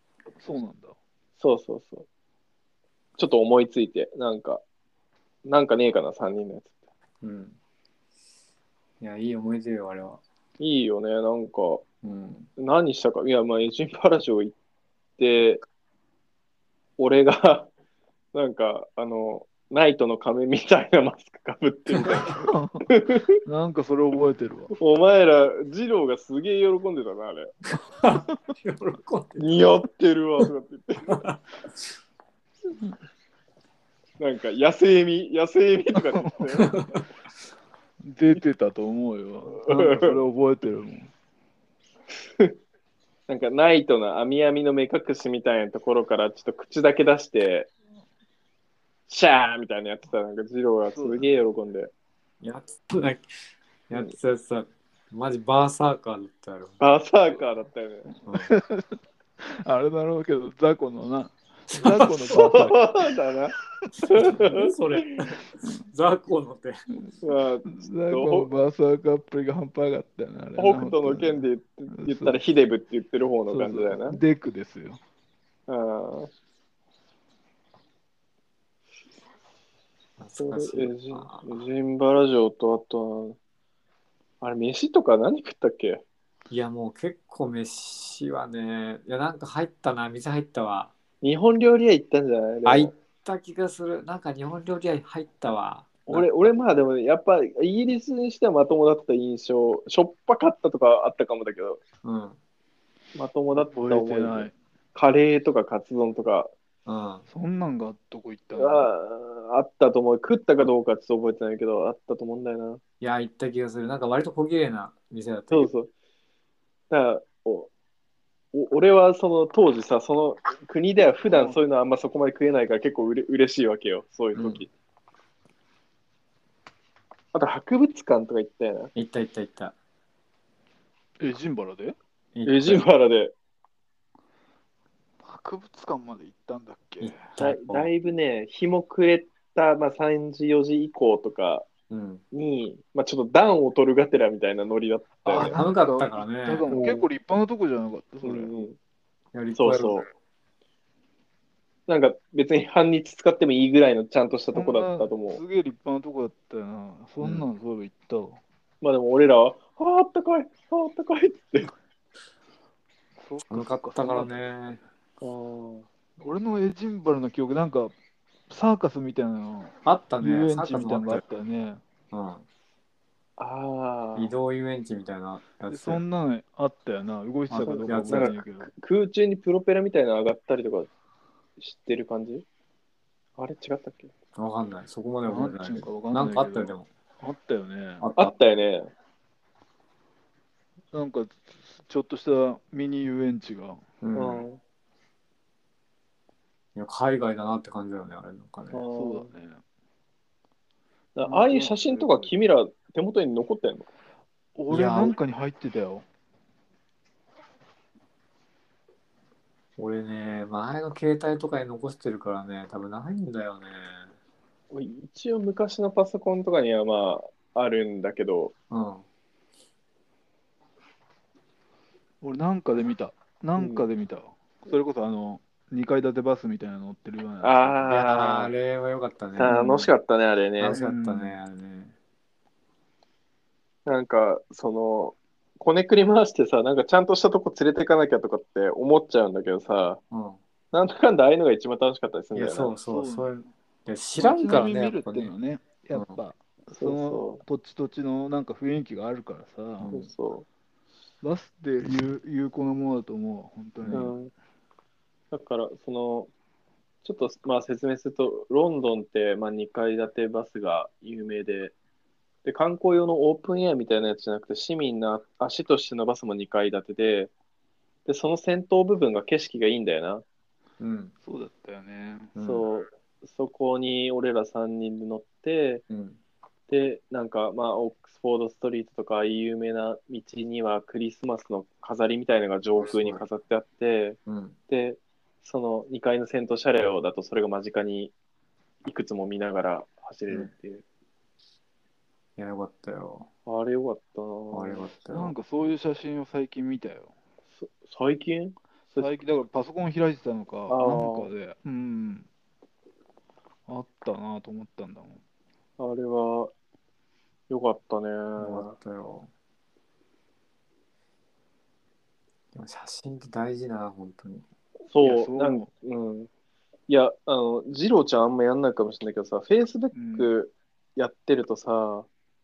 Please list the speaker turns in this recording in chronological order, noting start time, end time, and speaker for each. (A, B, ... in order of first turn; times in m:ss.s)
0:00.4-0:01.0 A
0:01.4-0:02.1 B
0:03.2-0:04.6 B
0:05.4-0:06.7 B
0:07.2-0:07.6 C
0:09.0-0:10.2 C
0:10.6-0:11.8 B
0:12.0-0:12.5 C
0:12.6-0:14.6 B
0:15.2-0:15.6 B
0:17.0-0:17.7 B
0:18.3-0:23.4 B
0:22.5-0:22.9 A
0:23.4-0:24.7 A
0:24.8-0:27.5 B
0:28.0-0:29.5 C
0:29.4-0:31.2 B
0:31.1-0:31.4 C
0:34.2-0:36.8 B
0:36.0-0:36.7 A
0:36.6-0:37.0 C
0:38.0-0:41.1 A
0:39.7-0:40.2 B
0:43.3-0:47.7 B
0:49.1-0:51.9 B
0:50.9-0:51.3 A
0:52.4-0:53.3 C
0:53.9-0:56.8 C
0:56.8-0:58.1 B
0:58.2-0:58.5 C
0:58.4-1:02.8 A
1:01.7-1:02.5 C
1:02.3-1:03.6 B
1:04.0-1:06.8 C
1:04.1-1:04.7 B
1:07.2-1:08.5 B
1:07.7-1:12.4 A
1:10.6-1:14.2 B
1:13.5-1:15.0 A
1:15.7-1:16.3 B
1:20.2-1:21.6 C
1:20.4-1:23.4 B
1:24.4-1:26.0 B
1:26.5-1:30.9 C
1:31.2-1:32.9 B
1:32.6-1:36.3 C
1:36.1-1:41.8 B
1:42.0-1:42.4 C
1:43.2-1:46.5 B
1:43.5-1:44.5 A
1:46.8-1:47.2 C
1:47.3-1:48.9 A
1:48.6-1:52.8 B
1:53.0-1:55.7 C
1:55.5-1:55.9 B
1:56.9-1:57.7 B
1:58.5-2:04.7 B
2:01.2-2:01.6 A
2:04.3-2:04.6 C
2:07.3-2:08.9 B
2:09.0-2:09.8 C
2:11.2-2:12.0 A
2:12.3-2:12.9 C
2:12.5-2:13.3 B
2:15.2-2:17.2 A
2:17.0-2:17.9 C
2:17.4-2:21.7 B
2:21.9-2:22.2 C
2:22.3-2:25.6 B
2:25.3-2:28.5 A
2:25.3-2:26.7 C
2:26.7-2:27.1 B
2:28.2-2:28.8 B
2:29.3-2:30.0 C
2:29.6-2:30.1 B
2:31.9-2:35.4 B
2:34.5-2:38.4 A
2:37.2-2:37.5 C
2:38.8-2:41.7 B
2:43.2-2:44.5 A
2:43.5-2:44.8 C
2:45.2-2:45.9 B
2:46.2-2:47.9 A
2:48.5-2:51.8 A
2:49.8-2:51.2 C
2:52.1-2:52.4 C
2:53.4-2:54.3 B
2:54.2-2:56.0 C
2:55.7-2:58.7 A
2:57.5-3:00.9 B
2:57.8-2:58.3 C
3:01.6-3:02.4 B
3:03.4-3:04.1 B
3:04.4-3:06.9 C
3:05.3-3:08.1 A
3:08.0-3:08.3 C
3:08.2-3:08.9 B
3:10.9-3:13.8 A
3:14.0-3:14.4 C
3:14.2-3:14.6 B
3:16.8-3:18.8 C
3:18.7-3:19.3 B
3:18.9-3:19.6 A
3:21.2-3:23.9 B
3:21.2-3:22.4 A
3:24.6-3:26.1 A
3:24.7-3:25.2 C
3:29.8-3:34.1 C
3:34.7-3:38.5 B
3:38.7-3:39.0 C
3:42.2-3:47.8 A
3:43.6-3:43.8 B
3:47.4-3:48.5 B
3:47.8-3:49.7 C
3:49.4-3:50.8 B
3:49.5-3:49.9 A
3:50.6-3:52.0 C
3:50.7-3:51.4 A
3:53.8-4:00.0 B
4:00.1-4:00.4 C
4:00.7-4:02.7 B
4:02.3-4:05.3 C
4:02.8-4:03.3 A
4:04.2-4:09.9 A
4:05.9-4:06.2 C
4:06.8-4:07.4 B
4:09.8-4:10.1 C
4:09.9-4:10.5 B
4:11.2-4:14.1 A
4:13.8-4:14.3 B
4:15.3-4:16.3 B
4:17.0-4:21.7 B
4:22.4-4:27.3 B
4:28.1-4:30.2 B
4:30.8-4:31.1 C
4:31.2-4:32.3 A
4:32.4-4:32.7 C
4:32.4-4:35.8 B
4:35.9-4:36.2 C
4:36.7-4:44.2 B
4:42.8-4:43.2 C
4:44.2-4:44.6 C
4:44.7-4:48.1 B
4:48.8-4:50.8 B
4:52.4-4:53.3 C
4:53.5-4:54.9 B
4:54.5-4:55.4 C
4:55.1-4:57.1 A
4:57.5-4:59.1 B
4:58.9-5:02.3 A
5:00.7-5:01.3 B
5:03.7-5:05.2 A
5:05.8-5:06.5 B
5:07.5-5:08.7 B
5:08.4-5:09.3 C
5:12.5-5:14.4 C
5:14.9-5:16.3 B
5:15.0-5:15.7 A
5:16.9-5:22.1 B
5:19.9-5:20.3 A